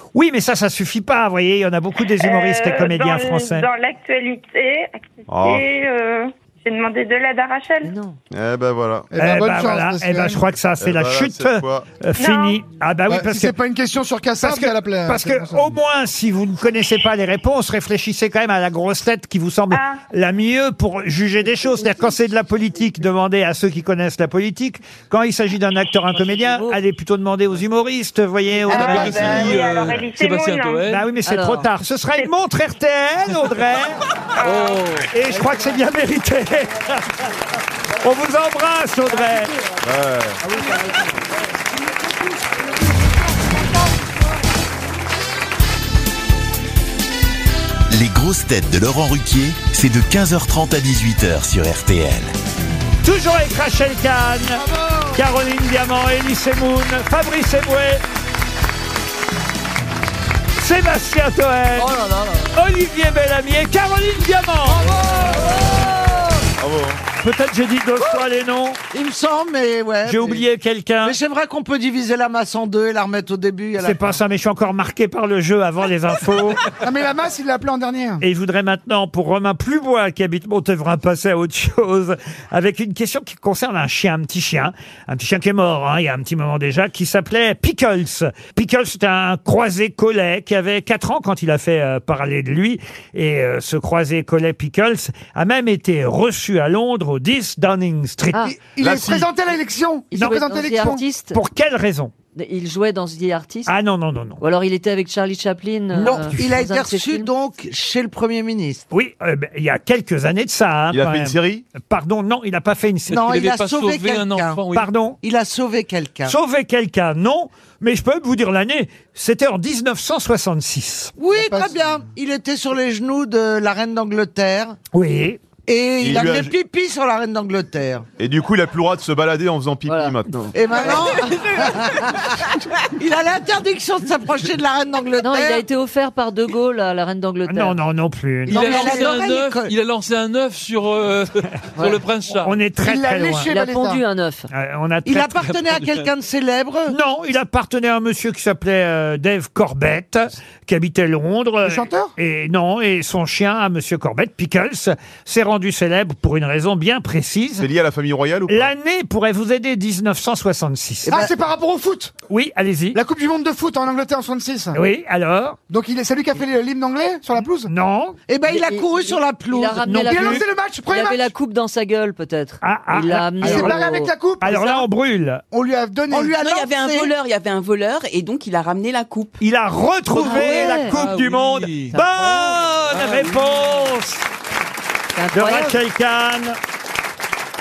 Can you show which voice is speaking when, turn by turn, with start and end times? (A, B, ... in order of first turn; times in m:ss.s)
0:00.1-0:03.7 A
0:02.2-0:07.9 B
0:05.3-0:05.6 C
0:07.8-0:08.2 D
0:08.3-0:09.1 C
0:09.1-0:10.4 E
0:09.2-0:13.6 A
0:10.8-0:11.9 C
0:12.2-0:12.6 B
0:13.1-0:15.7 E
0:14.4-0:29.5 A
0:19.7-0:20.0 B
0:26.2-0:26.8 D
0:28.7-0:31.1 F
0:28.7-0:30.9 B
0:30.9-0:34.0 A
0:31.2-0:31.6 D
0:34.4-0:34.8 B
0:34.4-0:35.1 F
0:35.1-0:37.2 A
0:38.0-0:39.5 A
0:39.8-0:40.4 C
0:40.4-0:41.1 E
0:47.9-0:52.3 G
0:53.0-0:58.0 A
0:54.6-0:55.2 E
1:00.6-1:01.9 A
1:01.8-1:02.5 H
1:02.5-1:04.9 A
1:04.7-1:05.7 E
1:05.2-1:06.2 D
1:06.6-1:07.0 C
1:07.2-1:08.8 A
1:08.9-1:10.4 H
1:10.0-1:11.1 A
1:11.0-1:14.1 H
1:13.8-1:16.6 A
1:16.8-1:18.2 E
1:18.2-1:38.5 A
1:38.5-1:41.0 E
1:38.8-1:39.3 C
1:40.1-1:41.4 D
1:41.3-1:42.1 A
1:42.3-1:43.7 D
1:43.6-1:44.4 A
1:44.4-1:47.3 D
1:45.9-1:46.3 A
1:46.0-1:48.8 H
1:48.9-1:53.2 A
1:50.9-1:51.6 C
1:53.1-1:54.6 H
1:53.1-1:54.9 F
1:54.7-1:55.2 A
1:55.2-1:56.4 H
1:56.2-2:01.1 A
2:01.2-2:04.8 H
2:01.3-2:02.0 E
2:04.9-2:05.4 A
2:05.7-2:08.0 H
2:06.0-2:06.5 C
2:08.2-2:10.9 C
2:09.9-2:10.2 D
2:10.5-2:15.6 H
2:15.2-2:17.8 D
2:17.5-2:19.2 A
2:18.5-2:22.5 F
2:18.5-2:19.7 H
2:21.8-2:22.0 D
2:22.4-2:23.5 A
2:22.8-2:24.0 E
2:23.5-2:24.5 D
2:24.5-2:25.4 A
2:25.0-2:26.9 H
2:25.4-2:26.1 F
2:26.9-2:37.6 A
2:31.6-2:32.1 E
2:37.6-2:38.7 C
2:38.5-2:41.2 A
2:41.0-2:41.3 H
2:41.1-2:42.1 E
2:42.3-2:43.0 A
2:42.9-2:44.8 E
2:44.7-2:45.6 A
2:45.7-2:47.7 E
2:47.7-2:48.2 A
2:48.3-2:49.9 H
2:48.5-2:54.1 D
2:49.8-2:50.4 A
2:50.1-2:51.3 E
2:52.6-2:53.9 A
2:53.4-2:54.6 E
2:54.4-2:55.4 A
2:55.5-2:56.7 E
2:56.1-2:59.4 I
2:56.1-2:57.1 H
2:59.4-3:04.2 A
3:00.1-3:01.0 D
3:00.8-3:02.0 F
3:01.9-3:02.5 D
3:02.9-3:03.4 F
3:05.2-3:05.8 D
3:05.3-3:06.6 A